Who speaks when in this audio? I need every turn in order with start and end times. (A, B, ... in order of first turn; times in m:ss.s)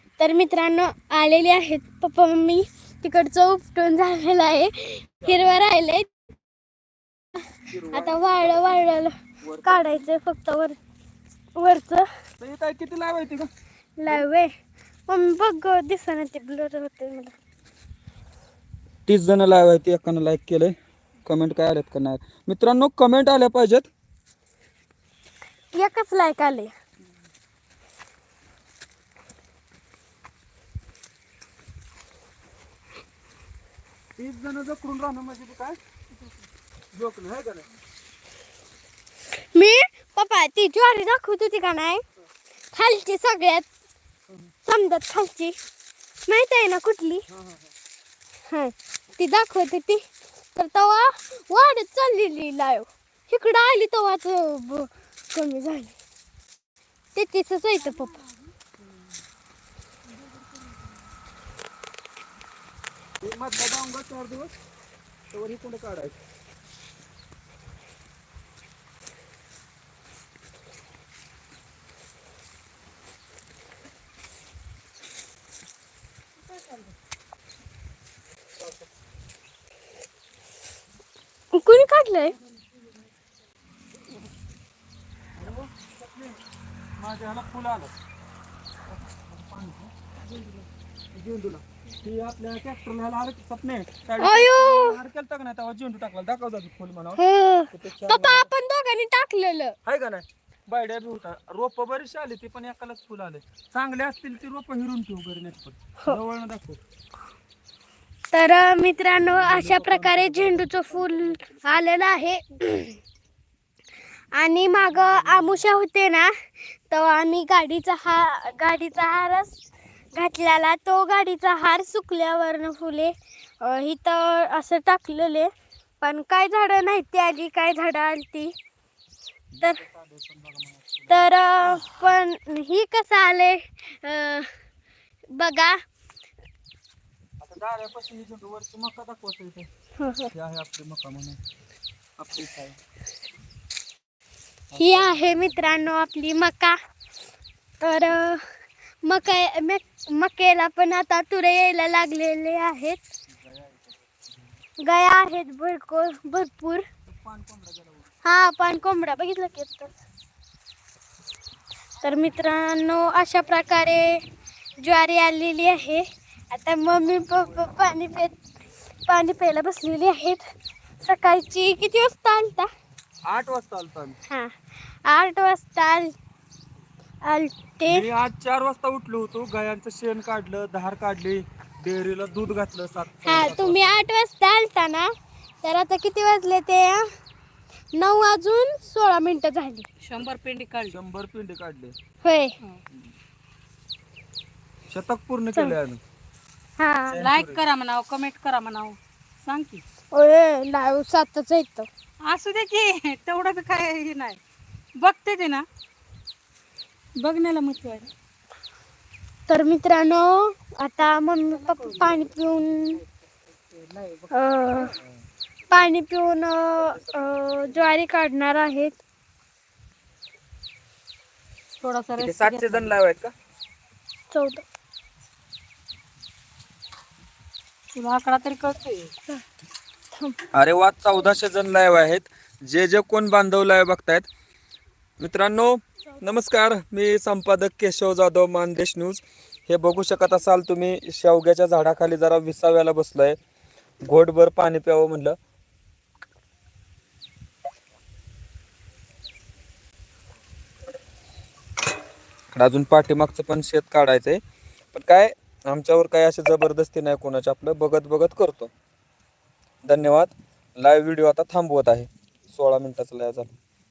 0:00.2-0:06.1 A
0:05.2-0:05.5 B
0:07.7-0:08.8 B
0:07.9-0:10.8 A
0:09.4-0:09.9 B
0:11.6-0:12.1 A
0:12.4-0:13.5 B
0:14.0-0:14.5 A
0:15.1-0:17.3 A
0:19.0-0:23.9 B
0:25.7-0:26.7 A
0:34.2-0:35.8 B
0:36.9-0:37.7 B
0:39.4-0:42.0 A
0:42.7-0:43.7 A
0:44.6-0:45.6 A
0:46.3-0:47.2 A
0:47.3-0:47.7 B
0:48.5-0:50.0 A
0:50.5-0:55.9 A
0:57.1-0:58.2 A
1:03.2-1:04.5 B
1:05.3-1:06.2 B
1:16.5-1:16.9 C
1:21.5-1:22.4 A
1:25.4-1:26.4 B
1:27.0-1:27.9 B
1:28.9-1:29.9 B
1:31.1-1:37.2 B
1:34.2-1:35.0 A
1:37.2-1:39.8 A
1:37.7-1:38.5 B
1:39.8-1:46.8 B
1:48.3-1:53.0 A
1:49.2-1:51.8 B
1:54.4-1:59.6 A
1:54.9-1:55.6 B
2:00.1-2:05.5 A
2:06.0-2:08.5 A
2:09.5-2:11.3 B
2:11.1-2:14.5 A
2:15.4-2:15.8 A
2:17.4-2:19.7 B
2:20.0-2:20.3 A
2:20.3-2:21.4 B
2:22.2-2:22.8 B
2:24.7-2:25.8 B
2:24.7-2:26.8 A
2:27.8-2:28.4 A
2:29.0-2:33.0 A
2:33.3-2:34.6 B
2:34.8-2:36.8 A
2:37.1-2:38.1 B
2:38.2-2:39.9 A
2:42.0-2:44.2 A
2:44.8-2:48.4 A
2:47.1-2:47.7 B
2:49.1-2:50.4 A
2:51.0-2:52.7 A
2:53.3-2:54.2 B
2:54.3-2:56.2 A
2:57.2-2:58.0 A
2:57.8-3:03.9 B
3:03.2-3:05.1 A
3:05.6-3:07.0 A
3:07.9-3:09.8 A
3:10.0-3:11.0 C
3:10.9-3:11.9 B
3:12.2-3:12.5 A
3:14.9-3:16.0 B
3:16.8-3:17.2 A
3:17.1-3:17.6 B
3:17.2-3:19.8 C
3:20.1-3:21.9 A
3:22.2-3:24.4 C
3:25.0-3:25.6 C
3:27.2-3:28.1 C
3:29.5-3:33.0 A
3:31.7-3:32.2 C
3:33.7-3:34.3 C
3:34.3-3:35.0 A
3:35.7-3:39.0 A
3:36.8-3:37.3 B
3:41.8-3:42.9 C
3:42.2-3:43.3 B
3:44.3-3:44.6 A
3:47.9-3:49.1 C
3:50.1-3:50.4 A
3:50.5-3:54.3 B
3:55.2-4:03.4 B
4:04.0-4:05.4 B
4:12.5-4:14.4 B
4:14.9-4:18.7 B
4:19.8-4:23.5 B